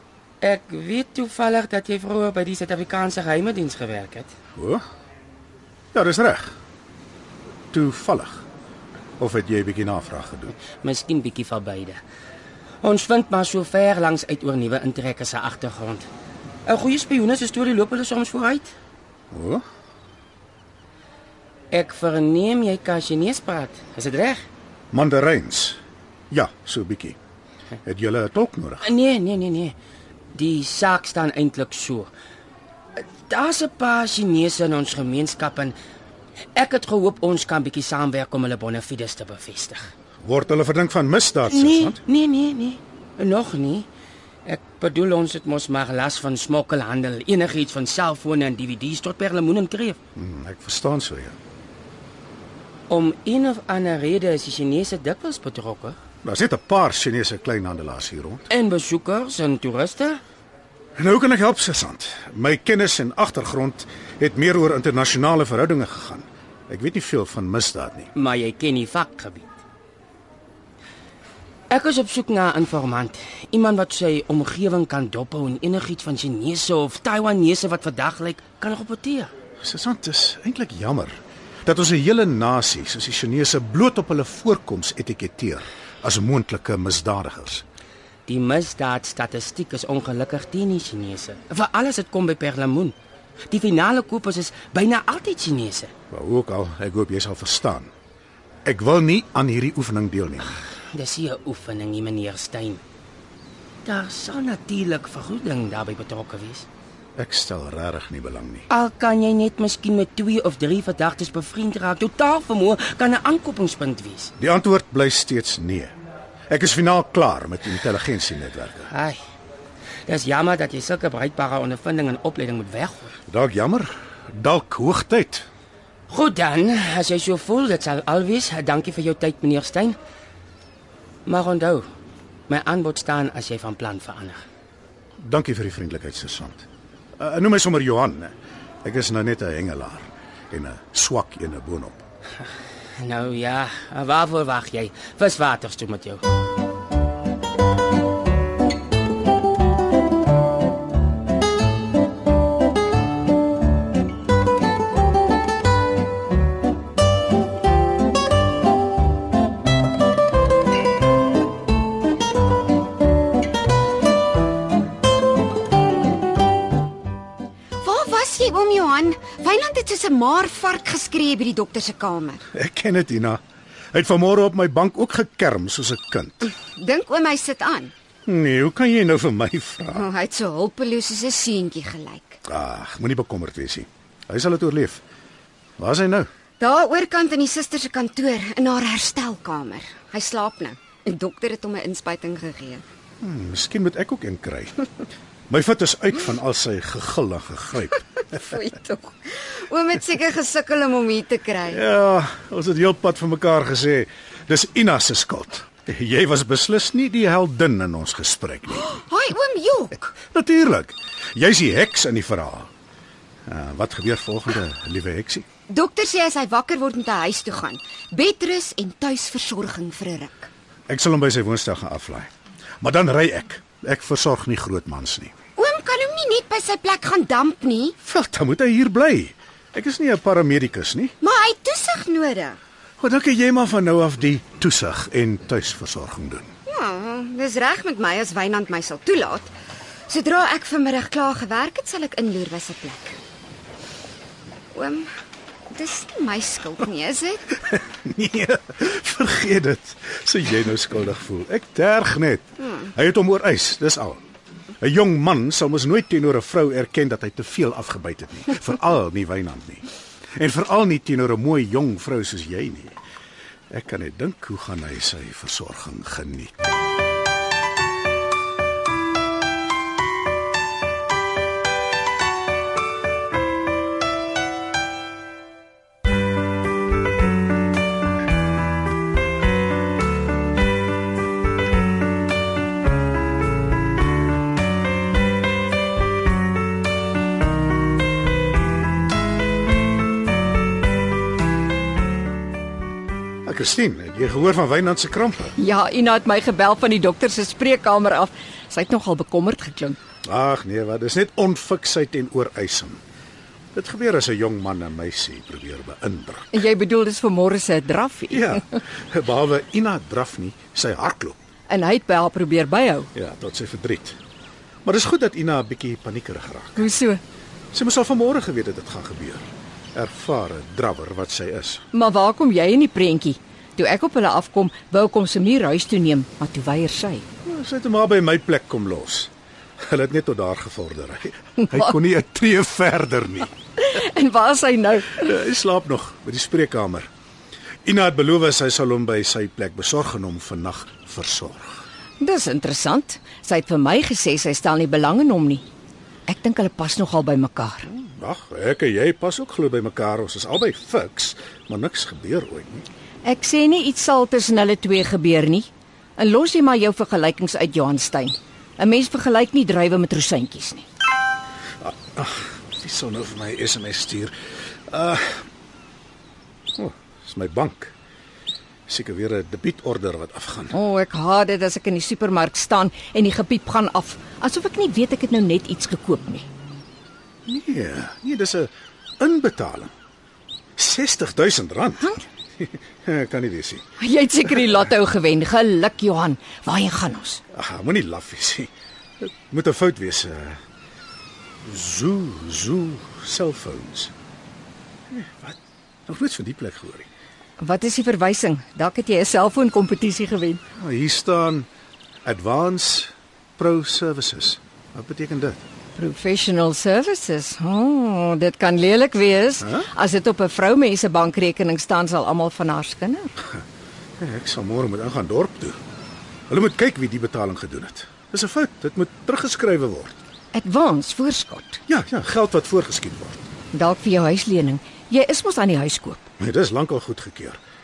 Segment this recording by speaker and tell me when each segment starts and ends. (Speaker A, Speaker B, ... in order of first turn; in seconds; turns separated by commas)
Speaker A: 0.4-4.3, Speaker B: 4.6-4.8, Speaker B: 5.9-6.5, Speaker B: 7.7-8.4, Speaker B: 9.2-10.6, Speaker A: 10.6-12.0, Speaker A: 12.8-16.1, Speaker A: 16.7-18.7, Speaker B: 19.3-19.6, Speaker A: 21.7-24.4, Speaker B: 24.9-25.8, Speaker B: 26.3-27.2, Speaker B: 27.9-28.9, Speaker A: 28.8-29.8, Speaker A: 30.4-32.1, Speaker A: 33.0-35.8, Speaker A: 36.5-39.9, Speaker B: 40.2-42.0, Speaker A: 41.5-43.9, Speaker A: 44.5-50.0, Speaker B: 50.1-51.4, Speaker A: 52.9-56.0, Speaker B: 56.2-58.5, Speaker A: 58.5-60.2, Speaker B: 61.0-68.1, Speaker A: 68.2-69.5, Speaker A: 71.7-79.3, Speaker B: 79.6-87.6, Speaker A: 88.3-93.0, Speaker A: 93.5-95.9, Speaker B: 96.1-97.9, Speaker B: 98.7-100.6, Speaker A: 100.9-102.8, Speaker A: 103.8-106.7, Speaker B: 107.2-108.7, Speaker A: 108.7-114.3, Speaker B: 114.4-115.9, Speaker B: 116.5-118.9, Speaker A: 118.9-119.2, Speaker A: 120.1-123.2, Speaker B: 123.3-125.5, Speaker A: 126.1-130.0, Speaker A: 131.3-131.8, Speaker A: 132.5-134.4, Speaker B: 135.2-136.7, Speaker B: 137.2-142.0, Speaker A: 143.0-146.2, Speaker C: 167.8-172.4, Speaker B: 172.5-173.4, Speaker B: 173.9-176.5, Speaker C: 176.4-177.9, Speaker B: 178.3-180.1, Speaker C: 179.9-182.4, Speaker B: 182.4-185.0, Speaker B: 185.8-186.3, Speaker C: 186.6-192.8, Speaker B: 193.2-194.9, Speaker B: 195.5-198.3, Speaker C: 198.3-201.8, Speaker B: 201.7-209.0, Speaker C: 208.9-210.1, Speaker B: 210.2-212.7, Speaker B: 213.5-215.5, Speaker C: 215.7-220.5, Speaker B: 220.9-222.3, Speaker B: 222.8-225.3, Speaker C: 225.6-227.9, Speaker B: 228.0-231.1, Speaker C: 231.2-232.6, Speaker B: 233.0-236.5, Speaker C: 236.7-239.5, Speaker C: 240.1-243.2, Speaker C: 244.7-245.1, Speaker C: 245.7-247.6, Speaker B: 247.7-254.2, Speaker B: 254.8-263.0, Speaker B: 263.7-266.5, Speaker B: 293.4-295.6, Speaker D: 295.6-300.0, Speaker B: 300.2-303.0, Speaker B: 303.7-306.6, Speaker D: 306.5-308.6, Speaker B: 308.3-311.4, Speaker D: 311.7-313.1, Speaker B: 313.1-314.2, Speaker B: 314.9-316.9, Speaker D: 316.8-317.2, Speaker B: 317.7-321.8, Speaker D: 321.9-327.2, Speaker B: 327.4-329.3, Speaker B: 329.8-333.5, Speaker D: 333.8-335.3, Speaker B: 335.1-337.1, Speaker B: 337.9-341.8, Speaker D: 342.2-345.6, Speaker D: 346.3-347.9, Speaker B: 347.9-352.9, Speaker D: 353.2-360.9, Speaker B: 361.8-364.3, Speaker B: 364.9-365.4, Speaker B: 366.8-367.9, Speaker B: 368.9-370.8, Speaker D: 370.7-376.5, Speaker B: 377.5-379.9, Speaker B: 380.8-383.8, Speaker D: 384.0-387.4, Speaker B: 387.5-388.7, Speaker B: 389.2-390.6, Speaker B: 391.6-394.1, Speaker B: 395.1-397.1, Speaker D: 397.6-400.6, Speaker B: 400.8-401.7, Speaker B: 402.2-405.6, Speaker D: 406.0-413.3, Speaker B: 414.2-415.8, Speaker B: 416.5-420.2, Speaker D: 420.5-421.8, Speaker B: 421.9-423.4, Speaker D: 423.7-426.3, Speaker B: 426.4-427.6